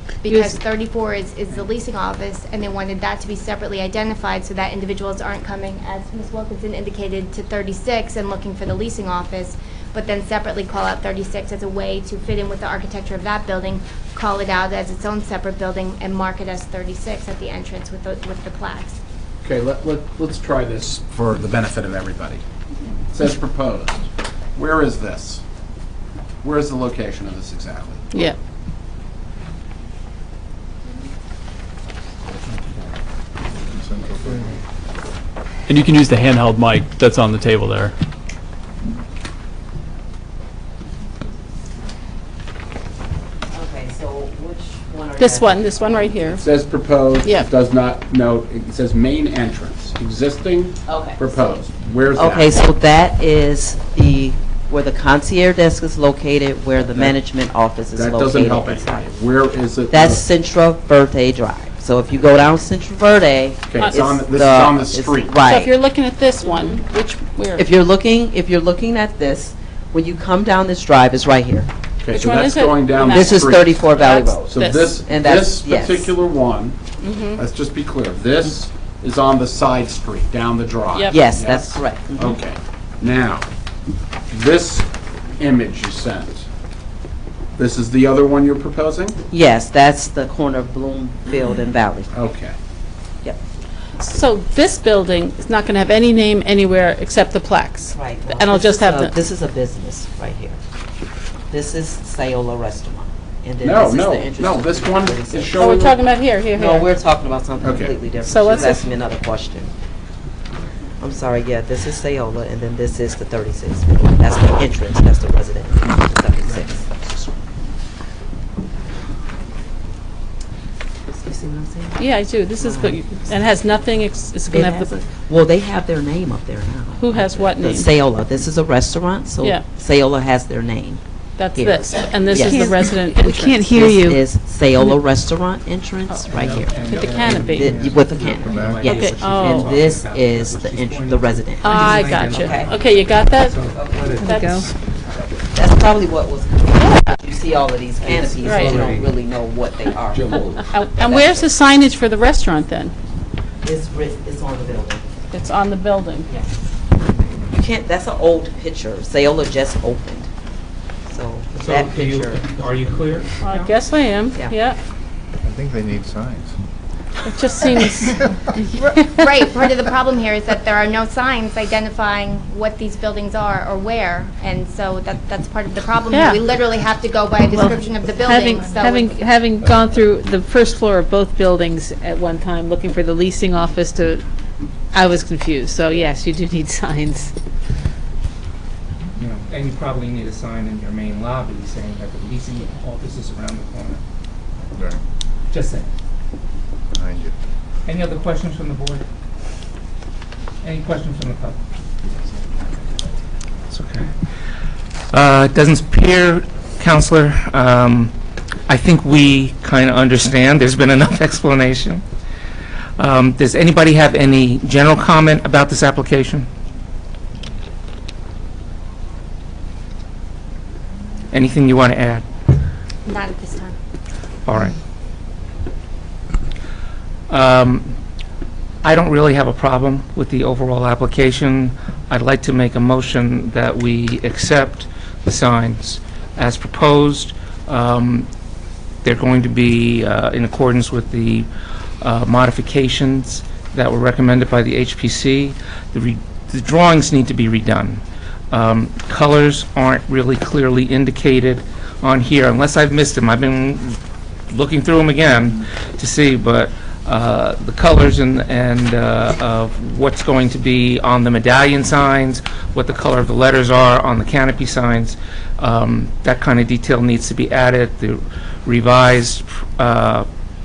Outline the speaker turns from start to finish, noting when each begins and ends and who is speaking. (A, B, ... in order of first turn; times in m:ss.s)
0:00.2-0:19.0 A
0:19.4-0:22.4 B
0:23.1-0:25.4 B
0:26.4-0:28.0 B
0:33.8-0:34.2 C
0:35.7-0:37.9 D
0:43.5-0:46.6 E
0:45.2-0:46.4 F
0:46.4-0:52.5 B
0:50.8-0:59.1 E
0:56.9-0:57.2 B
0:57.9-1:00.2 B
0:59.9-1:05.7 E
1:03.7-1:05.4 B
1:05.4-1:07.6 F
1:07.6-1:11.7 E
1:12.0-1:13.9 B
1:12.1-1:14.8 F
1:13.1-1:16.2 E
1:14.4-1:16.8 B
1:17.0-1:17.4 F
1:17.3-1:23.4 B
1:21.1-1:22.4 E
1:24.3-1:24.9 B
1:25.4-1:26.4 B
1:27.6-1:29.2 B
1:29.3-1:32.1 E
1:32.1-1:32.6 B
1:34.0-1:39.1 F
1:37.9-1:40.6 E
1:41.5-1:45.8 E
1:43.6-1:46.0 B
1:45.6-1:46.8 F
1:46.5-1:49.7 E
1:47.6-1:48.7 B
1:48.2-1:48.6 F
1:51.0-1:56.9 E
2:01.1-2:03.2 E
2:02.0-2:04.8 F
2:04.5-2:11.0 E
2:07.0-2:07.9 F
2:11.4-2:13.7 F
2:11.6-2:22.7 E
2:12.3-2:14.2 G
2:16.3-2:24.2 H
2:16.8-2:17.8 F
2:18.5-2:18.8 C
2:18.8-2:19.6 F
2:21.6-2:23.6 F
2:21.6-2:22.5 G
2:23.7-2:24.4 E
2:24.2-2:24.7 G
2:24.2-2:24.6 F
2:25.5-2:31.5 E
2:26.8-2:27.2 F
2:28.1-2:29.1 H
2:28.4-2:28.8 F
2:30.1-2:30.7 B
2:30.7-2:32.9 F
2:33.6-2:35.0 E
2:35.3-2:36.3 F
2:37.4-2:40.3 E
2:41.1-2:42.4 E
2:41.5-2:43.3 H
2:43.4-2:44.8 F
2:45.4-2:46.5 C
2:47.2-2:48.2 F
2:49.1-2:59.1 A
2:57.5-3:04.2 G
3:04.9-3:07.3 G
3:09.2-3:14.0 H
3:15.5-3:15.9 H
3:17.0-3:17.3 C
3:17.8-3:19.0 H
3:20.6-3:21.6 H
3:23.7-3:24.1 H
3:25.1-3:28.1 H
3:28.7-3:32.0 H
3:33.0-3:36.5 H
3:41.3-3:42.2 H
3:43.0-3:43.8 A
3:44.4-3:44.8 H
3:47.3-3:48.0 H
3:48.8-3:58.3 H
3:59.0-4:01.5 H
4:02.0-4:30.3 H